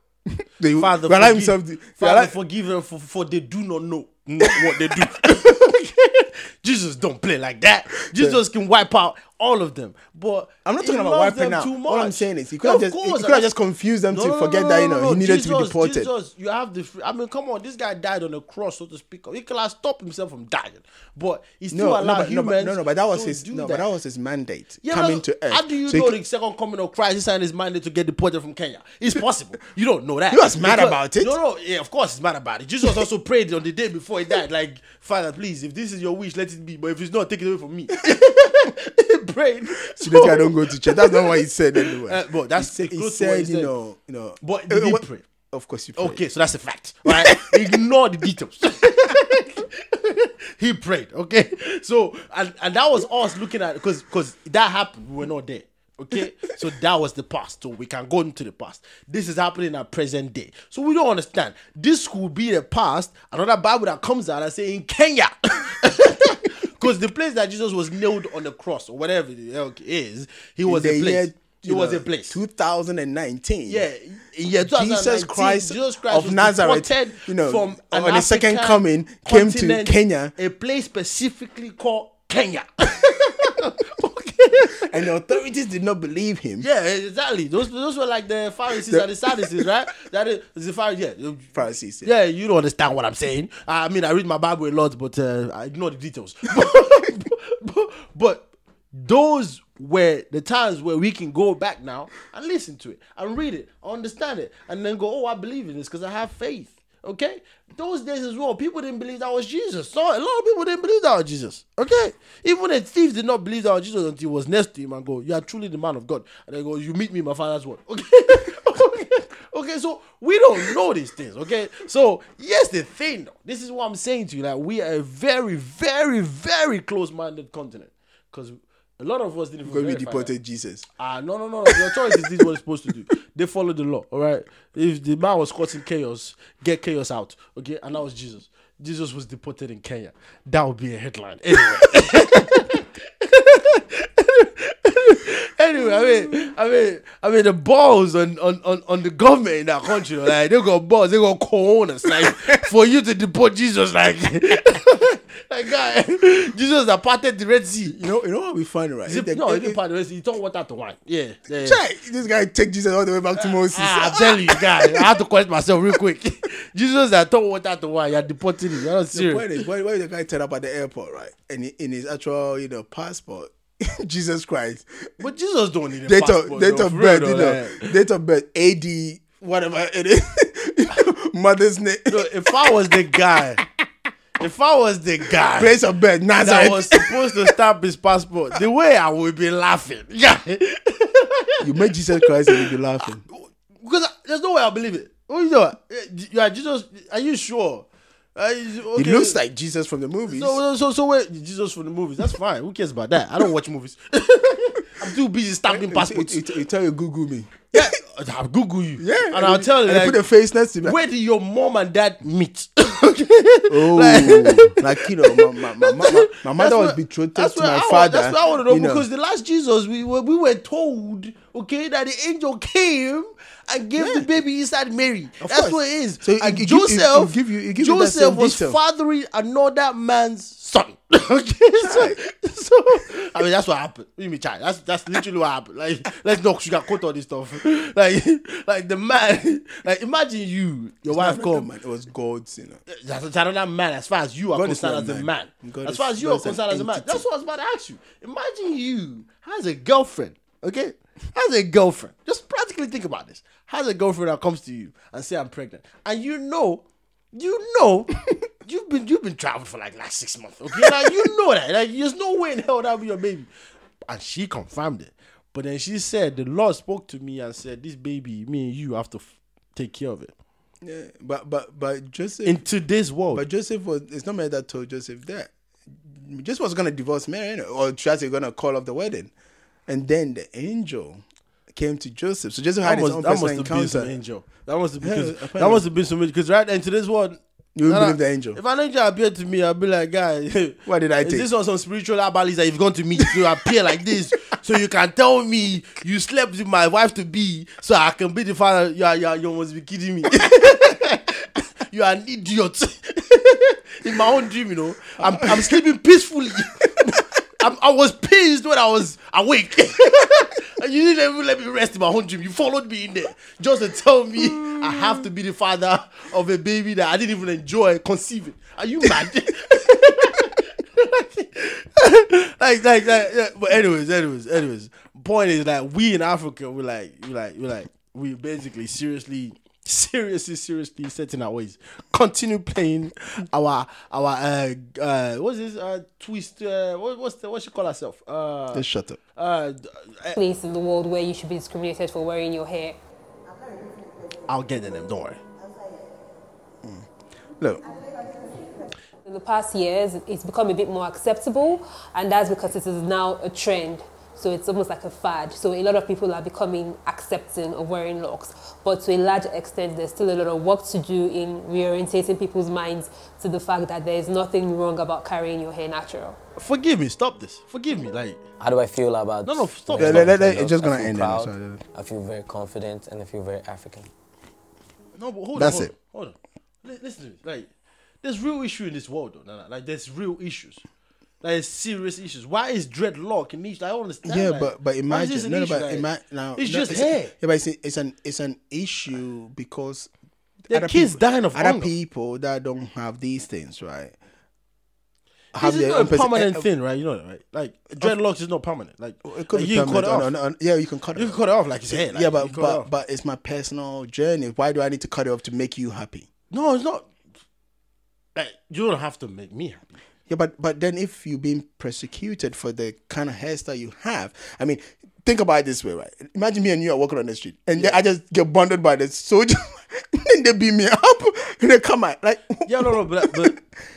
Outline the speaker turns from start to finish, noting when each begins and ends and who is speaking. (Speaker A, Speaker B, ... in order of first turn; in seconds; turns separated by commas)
Speaker A: 0.3-2.3, Speaker B: 0.8-13.5, Speaker A: 4.4-5.6, Speaker A: 8.1-8.4, Speaker A: 10.7-16.1, Speaker B: 14.1-23.8, Speaker A: 21.7-26.2, Speaker B: 24.8-43.7, Speaker A: 30.3-31.4, Speaker A: 39.9-46.2, Speaker B: 44.4-45.2, Speaker B: 46.0-72.4, Speaker A: 47.0-47.8, Speaker A: 70.7-73.8, Speaker B: 73.7-85.1, Speaker A: 74.6-80.3, Speaker A: 84.7-86.7, Speaker B: 86.6-130.3, Speaker A: 88.8-89.7, Speaker A: 91.5-92.1, Speaker A: 129.6-130.9, Speaker B: 131.0-158.0, Speaker A: 131.7-132.4, Speaker A: 152.1-152.6, Speaker A: 157.9-159.8, Speaker B: 159.1-161.8, Speaker A: 161.6-165.2, Speaker B: 163.4-169.6, Speaker A: 169.1-175.1, Speaker B: 175.2-177.9, Speaker A: 176.1-182.9, Speaker B: 182.1-183.6, Speaker B: 184.4-185.8, Speaker A: 185.6-187.6, Speaker B: 186.4-192.7, Speaker A: 191.6-193.2, Speaker B: 193.8-199.4, Speaker A: 198.9-200.6, Speaker B: 200.3-206.4, Speaker A: 205.7-207.9, Speaker B: 207.7-210.2, Speaker A: 209.0-211.0, Speaker B: 210.8-241.7, Speaker A: 213.7-219.1, Speaker A: 224.0-224.3, Speaker A: 225.4-228.8, Speaker A: 231.8-232.2, Speaker A: 241.1-242.8, Speaker B: 242.9-263.5, Speaker A: 244.5-247.2, Speaker A: 260.7-261.1, Speaker B: 264.1-270.3, Speaker A: 270.8-272.6, Speaker B: 272.4-273.4, Speaker A: 273.3-275.5, Speaker A: 276.0-279.3, Speaker A: 279.9-284.1, Speaker B: 282.8-340.4, Speaker A: 285.0-285.9, Speaker A: 287.8-288.6, Speaker A: 290.9-291.5, Speaker A: 305.2-305.8, Speaker A: 314.5-314.9, Speaker A: 338.7-339.2, Speaker C: 340.3-343.0, Speaker B: 344.5-345.4, Speaker A: 346.8-347.8, Speaker C: 349.2-366.4, Speaker B: 366.6-368.4, Speaker D: 368.6-374.1, Speaker B: 369.4-370.3, Speaker A: 370.0-371.8, Speaker B: 375.1-377.7, Speaker A: 375.5-375.9, Speaker B: 378.2-380.8, Speaker B: 381.4-387.3, Speaker A: 384.2-390.1, Speaker B: 390.7-391.9, Speaker A: 390.7-394.1, Speaker B: 395.5-400.3, Speaker A: 395.5-396.6, Speaker A: 399.2-401.4, Speaker B: 401.1-402.9, Speaker A: 401.9-406.3, Speaker B: 406.5-407.1, Speaker B: 408.3-409.9, Speaker A: 410.3-423.6, Speaker B: 422.6-423.6